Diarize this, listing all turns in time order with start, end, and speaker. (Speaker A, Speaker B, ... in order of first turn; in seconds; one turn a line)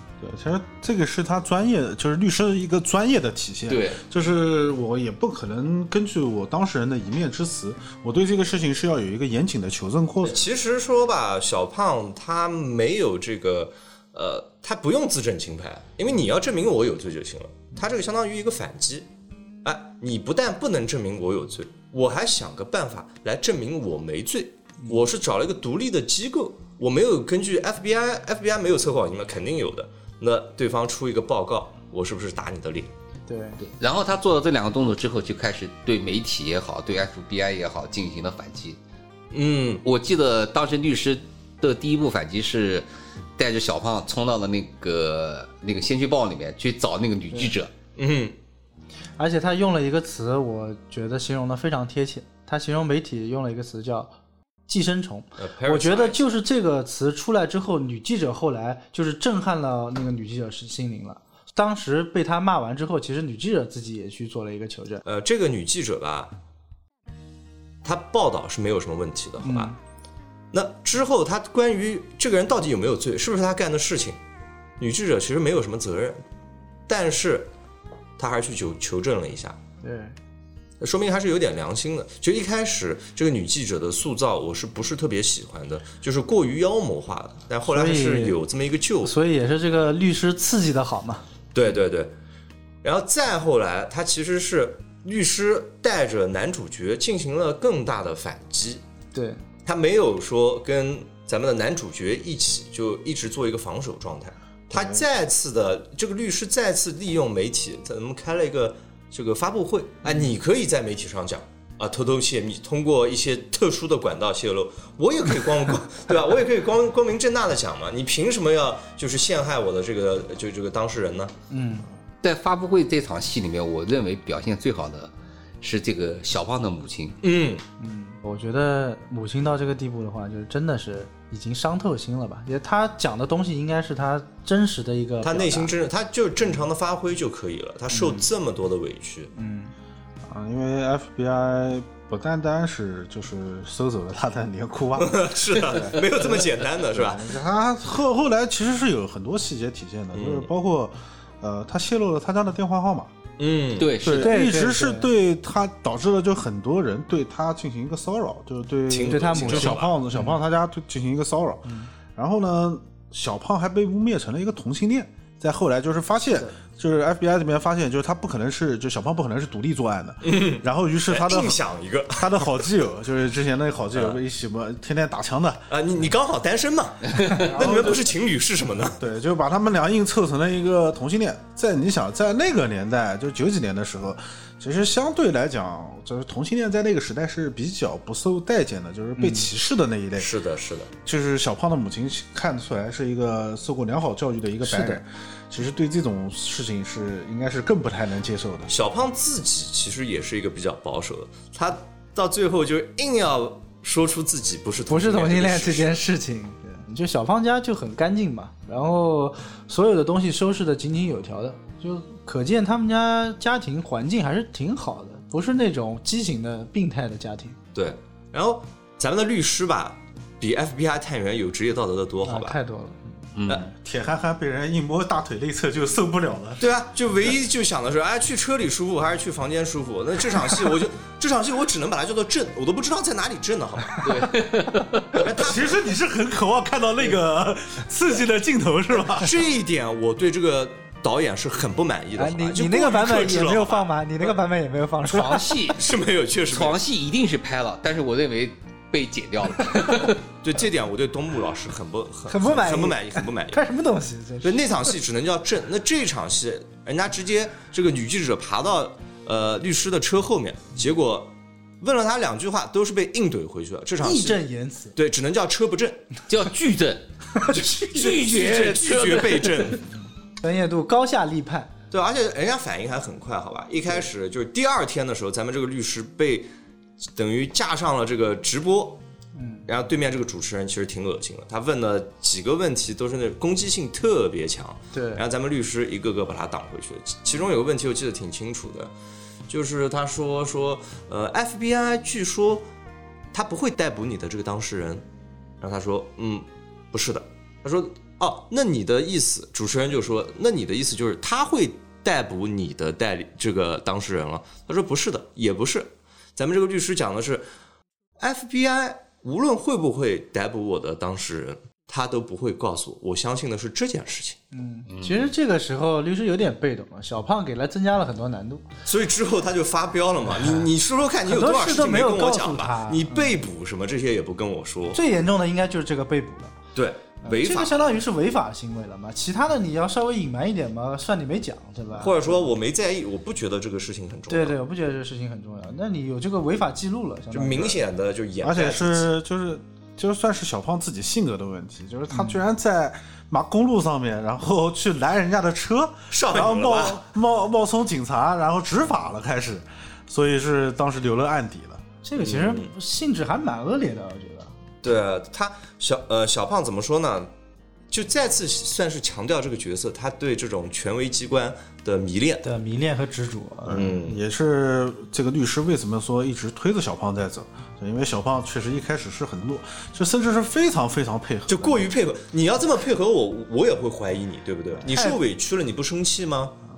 Speaker A: 0.2-10.4
Speaker B: 3.7-4.0
Speaker C: 10.2-19.1
Speaker C: 19.6-32.9
Speaker D: 33.3-33.6
Speaker B: 33.6-38.8
Speaker C: 39.3-39.8
Speaker B: 39.8-47.7
Speaker C: 48.0-48.4
Speaker D: 49.2-54.1
Speaker D: 54.7-65.0
Speaker C: 55.4-56.2
Speaker C: 65.0-66.3
Speaker C: 67.8-69.7
Speaker D: 69.4-69.8
Speaker C: 70.5-74.2
Speaker C: 74.8-76.2
Speaker C: 76.9-77.5
Speaker C: 78.2-79.6
Speaker D: 79.8-80.2
Speaker C: 80.8-89.1
Speaker D: 87.7-88.4
Speaker D: 89.0-91.2
Speaker C: 91.5-92.1
Speaker C: 92.8-98.8
Speaker D: 99.1-99.4
Speaker C: 99.7-121.3
Speaker A: 104.7-105.0
Speaker D: 121.5-121.9
Speaker B: 122.2-127.2
Speaker C: 127.2-127.6
Speaker D: 127.8-135.7
Speaker C: 135.2-139.3
Speaker D: 137.9-138.3
Speaker D: 139.3-139.7
Speaker A: 140.3-153.1
Speaker C: 145.0-147.3
Speaker C: 150.1-150.5
Speaker C: 153.4-154.0
Speaker B: 153.8-154.4
Speaker A: 154.0-175.8
Speaker D: 154.2-155.1
Speaker C: 158.9-159.9
Speaker D: 159.1-160.4
Speaker D: 161.7-161.9
Speaker C: 170.2-172.7
Speaker C: 173.9-174.2
Speaker C: 175.7-179.0
Speaker A: 177.4-178.1
Speaker A: 179.0-190.3
Speaker D: 189.2-189.5
Speaker C: 190.2-190.9
Speaker A: 191.1-198.7
Speaker D: 194.6-195.0
Speaker C: 198.7-206.0
Speaker D: 204.9-217.6
Speaker C: 217.8-222.6
Speaker D: 222.2-223.1
Speaker B: 223.3-223.7
Speaker A: 223.8-226.6
Speaker C: 226.6-234.1
Speaker B: 234.0-235.2
Speaker C: 235.1-235.9
Speaker A: 235.3-239.4
Speaker C: 239.1-243.9
Speaker D: 242.2-245.7
Speaker B: 245.1-245.8
Speaker C: 245.7-246.8
Speaker B: 246.5-250.2
Speaker C: 250.4-253.6
Speaker D: 252.3-254.9
Speaker C: 254.4-264.4
Speaker D: 264.0-264.9
Speaker C: 264.9-266.1
Speaker B: 266.3-269.8
Speaker C: 267.5-269.8
Speaker D: 270.4-271.7
Speaker C: 271.9-276.5
Speaker C: 277.2-279.0
Speaker D: 279.4-279.7
Speaker C: 279.7-288.9
Speaker D: 284.9-285.2
Speaker C: 289.5-292.7
Speaker C: 293.3-295.1
Speaker C: 295.6-307.4
Speaker C: 308.2-314.4
Speaker D: 314.5-318.6
Speaker B: 314.9-315.3
Speaker C: 318.9-325.0
Speaker D: 320.4-320.7
Speaker D: 321.3-323.4
Speaker D: 324.9-326.6
Speaker C: 326.8-327.9
Speaker D: 327.2-332.3
Speaker C: 332.0-334.6
Speaker D: 334.3-337.8
Speaker C: 337.3-339.1
Speaker A: 338.4-351.8
Speaker D: 342.1-342.4
Speaker C: 346.1-347.0
Speaker D: 352.0-354.5
Speaker C: 352.2-352.7
Speaker C: 354.8-357.3
Speaker C: 357.9-362.4
Speaker D: 362.4-363.9
Speaker A: 363.7-371.9
Speaker C: 363.7-364.2
Speaker C: 371.5-376.6
Speaker D: 374.9-375.2